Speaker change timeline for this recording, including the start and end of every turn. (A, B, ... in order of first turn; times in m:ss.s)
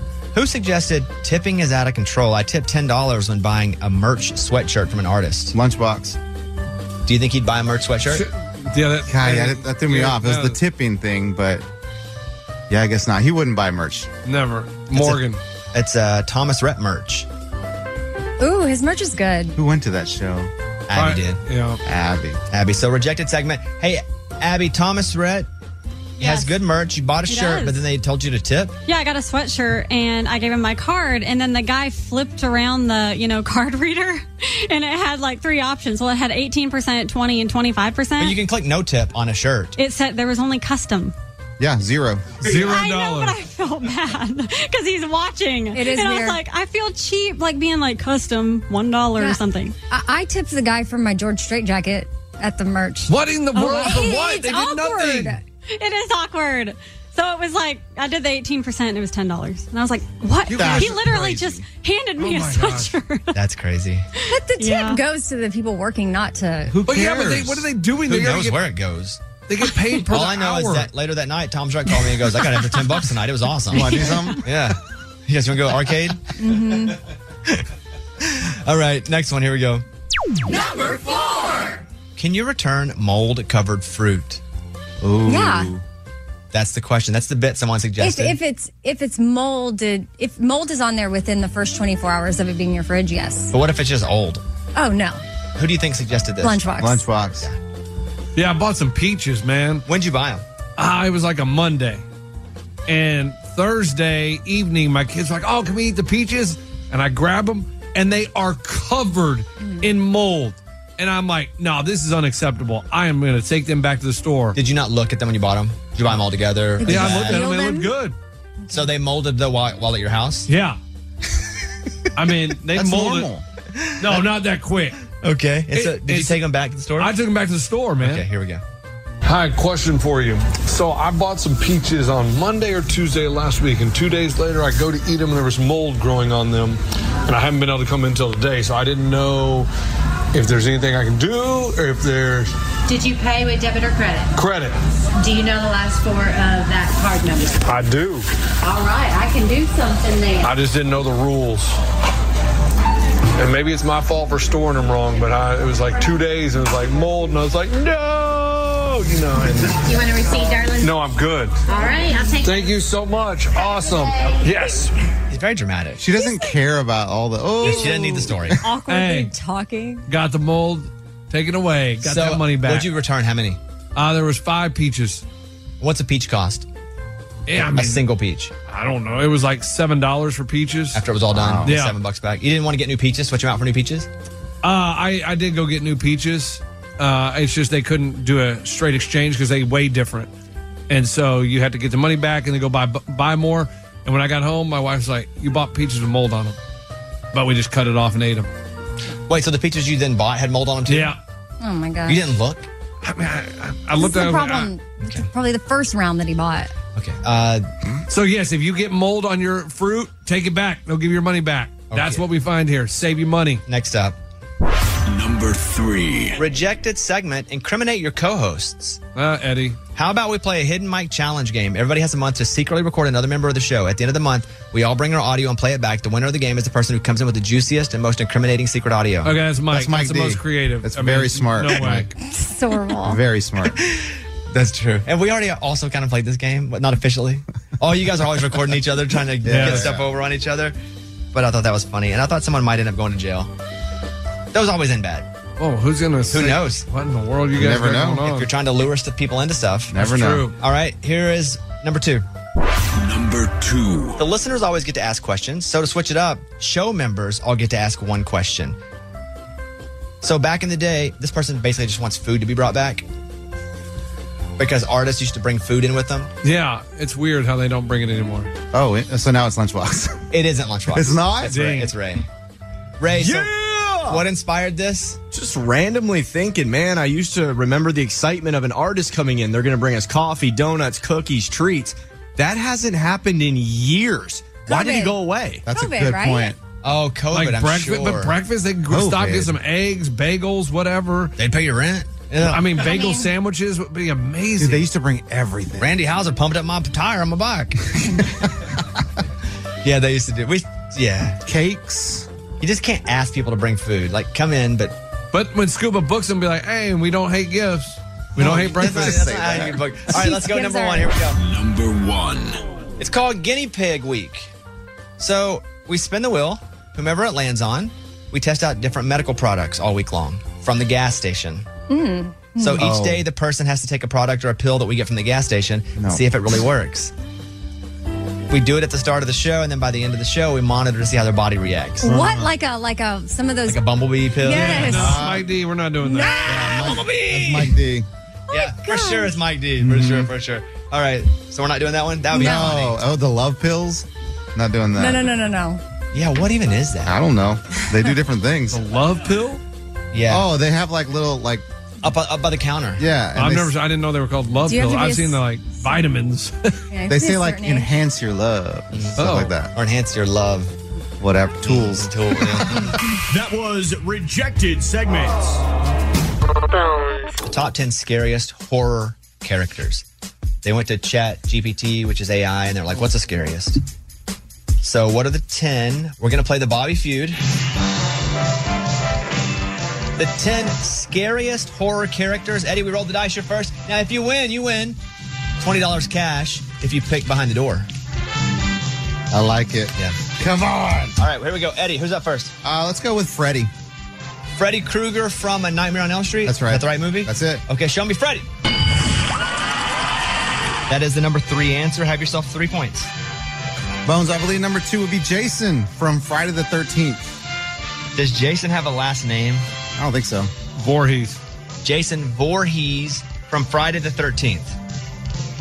0:00.3-0:05.6 A
0:05.5-0:06.2 B
0:07.1-0:08.3 A
0:08.1-0:10.6 C
0:09.1-0:11.6 B
0:12.7-0:14.1 B
0:14.2-0:15.4 C
0:14.9-0:15.2 A
0:15.7-0:17.3 A
0:18.4-0:19.6 D
0:19.6-0:20.5 B
0:20.9-0:21.4 A
0:20.9-0:21.8 C
0:21.8-0:22.4 B
0:22.5-0:25.5 A
0:26.2-0:28.8 A
0:26.2-0:26.5 E
0:27.3-0:27.6 E
0:28.9-0:38.4 E
0:38.2-0:39.8 A
0:39.8-0:41.1 E
0:41.6-0:42.4 B
0:42.4-0:43.4 C
0:42.5-0:49.8 E
0:45.7-0:46.4 D
0:49.2-0:55.4 D
0:53.1-0:55.4 C
0:55.7-1:03.4 E
1:00.5-1:01.6 B
1:02.2-1:02.9 C
1:03.3-1:04.1 A
1:04.3-1:06.8 D
1:04.6-1:05.0 E
1:06.8-1:08.6 C
1:06.9-1:07.6 B
1:08.0-1:09.2 A
1:09.5-1:10.9 C
1:10.1-1:16.2 A
1:13.7-1:14.5 B
1:16.4-1:17.0 D
1:18.2-1:19.8 A
1:22.2-1:24.4 A
1:25.0-1:25.8 B
1:25.2-1:25.7 D
1:26.5-1:28.4 A
1:28.0-1:33.5 D
1:33.5-1:34.4 A
1:34.8-1:35.2 D
1:35.6-1:36.7 A
1:36.4-1:37.1 D
1:36.8-1:37.5 B
1:38.4-1:39.8 C
1:39.9-1:40.4 A
1:40.8-1:42.0 C
1:42.9-1:54.6 C
1:49.6-1:49.9 D
1:54.6-1:57.5 A
1:56.8-1:58.0 D
1:56.9-1:58.2 C
1:58.7-2:00.5 A
2:00.5-2:00.8 C
2:02.2-2:03.3 C
2:02.7-2:03.4 B
2:03.8-2:04.2 A
2:04.0-2:05.0 C
2:05.2-2:07.1 A
2:05.7-2:06.4 C
2:07.0-2:08.2 C
2:08.0-2:08.6 A
2:09.2-2:19.7 F
2:20.3-2:22.5 F
2:22.9-2:24.3 G
2:24.4-2:24.8 F
2:25.2-2:27.7 G
2:27.6-2:28.3 F
2:28.6-2:30.6 G
2:30.4-2:31.8 F
2:33.4-2:39.8 F
2:39.6-2:41.0 G
2:40.8-2:41.6 F
2:41.7-2:42.8 G
2:42.4-2:44.9 F
2:43.6-2:44.9 G
2:45.3-2:46.0 A
2:46.0-2:48.5 B
2:46.1-2:46.6 D
2:47.6-2:50.1 D
2:47.6-2:48.6 A
2:48.8-2:49.3 C
2:50.1-2:52.9 C
2:52.0-2:53.6 A
2:54.0-2:55.2 C
2:55.8-2:56.7 A
2:57.5-2:58.1 C
2:57.5-2:58.5 A
2:58.7-3:01.0 C
3:00.9-3:04.1 A
3:01.3-3:01.8 B
3:01.6-3:02.0 C
3:04.6-3:10.3 C
3:10.9-3:16.6 C
3:17.3-3:18.5 C
3:19.3-3:21.2 A
3:20.9-3:21.2 C
3:21.6-3:22.3 D
3:22.1-3:22.7 A
3:23.0-3:24.7 C
3:24.0-3:26.7 D
3:25.0-3:25.3 A
3:27.0-3:27.7 A
3:28.1-3:33.6 C
3:31.9-3:32.3 A
3:33.7-3:34.2 A
3:35.1-3:36.4 H
3:36.4-3:39.0 A
3:39.2-3:39.8 C
3:40.0-3:49.3 A
3:49.2-3:52.1 C
3:49.7-3:52.1 B
3:52.2-3:53.2 D
3:53.0-3:53.8 B
3:53.7-4:00.8 A
3:59.4-4:00.1 B
3:59.5-3:59.9 C
4:01.3-4:03.5 A
4:04.5-4:05.3 A
4:05.6-4:08.5 C
4:06.3-4:06.9 A
4:07.6-4:08.3 B
4:08.2-4:10.1 A
4:09.9-4:10.5 B
4:10.0-4:10.6 C
4:10.6-4:12.2 A
4:12.9-4:14.2 H
4:14.2-4:18.8 A
4:20.2-4:23.1 A
4:24.6-4:26.3 A
4:26.4-4:28.5 C
4:28.7-4:30.2 B
4:30.3-4:32.2 A
4:30.9-4:31.6 B
4:31.4-4:31.9 C
4:33.0-4:33.5 A
4:33.6-4:34.1 I
4:34.0-4:35.2 A
4:35.3-4:45.6 I
4:44.7-4:46.6 D
4:45.6-4:46.6 B
4:46.8-4:48.4 A
4:47.3-4:51.4 C
4:48.9-4:49.6 B
4:51.4-4:52.8 A
4:52.4-4:54.9 C
4:52.8-4:53.3 D
4:54.6-4:56.0 B
4:55.8-4:58.2 A
4:59.8-5:01.4 A
5:01.4-5:02.3 B
5:02.6-5:05.0 A
5:05.3-5:09.2 C
5:08.4-5:11.4 A
5:08.7-5:09.8 B
5:10.1-5:11.1 D
5:11.4-5:12.6 H
5:13.0-5:14.5 A
5:15.2-5:21.7 A
5:21.9-5:22.9 D
5:22.6-5:27.1 A
5:22.8-5:23.2 B
5:26.0-5:26.2 B
5:28.5-5:32.1 A
5:32.0-5:33.8 D
5:32.0-5:32.5 B
5:33.7-5:35.1 A
5:34.4-5:35.2 D
5:34.5-5:37.7 C
5:34.7-5:35.5 B
5:36.0-5:36.6 D
5:36.4-5:38.1 B
5:38.5-5:43.0 A
5:38.5-5:39.4 D
5:39.8-5:40.3 B
5:42.3-5:42.8 D
5:42.3-5:45.3 B
5:45.0-5:45.8 D
5:46.1-5:47.2 A
5:47.0-5:48.8 B
5:48.7-5:49.6 C
5:50.1-5:50.5 A
5:50.3-5:51.6 B
5:52.0-5:53.0 A
5:53.0-5:53.7 B
5:53.4-5:56.8 C
5:54.6-5:56.0 D
5:56.9-5:58.0 D
5:57.1-5:59.7 B
5:58.9-6:00.8 A
5:59.2-5:59.5 C
6:01.2-6:02.7 B
6:01.6-6:03.0 A
6:03.3-6:05.6 J
6:07.4-6:10.0 A
6:10.6-6:13.8 A
6:14.8-6:17.4 A
6:20.2-6:25.0 A
6:25.6-6:27.9 A
6:29.3-6:31.2 B
6:31.2-6:32.5 A
6:32.6-6:33.7 B
6:34.6-6:38.5 A
6:36.4-6:37.6 B
6:40.9-6:43.1 A
6:44.0-6:47.4 B
6:48.2-6:49.7 A
6:50.0-6:50.5 B
6:50.8-6:51.4 C
6:51.8-6:54.8 A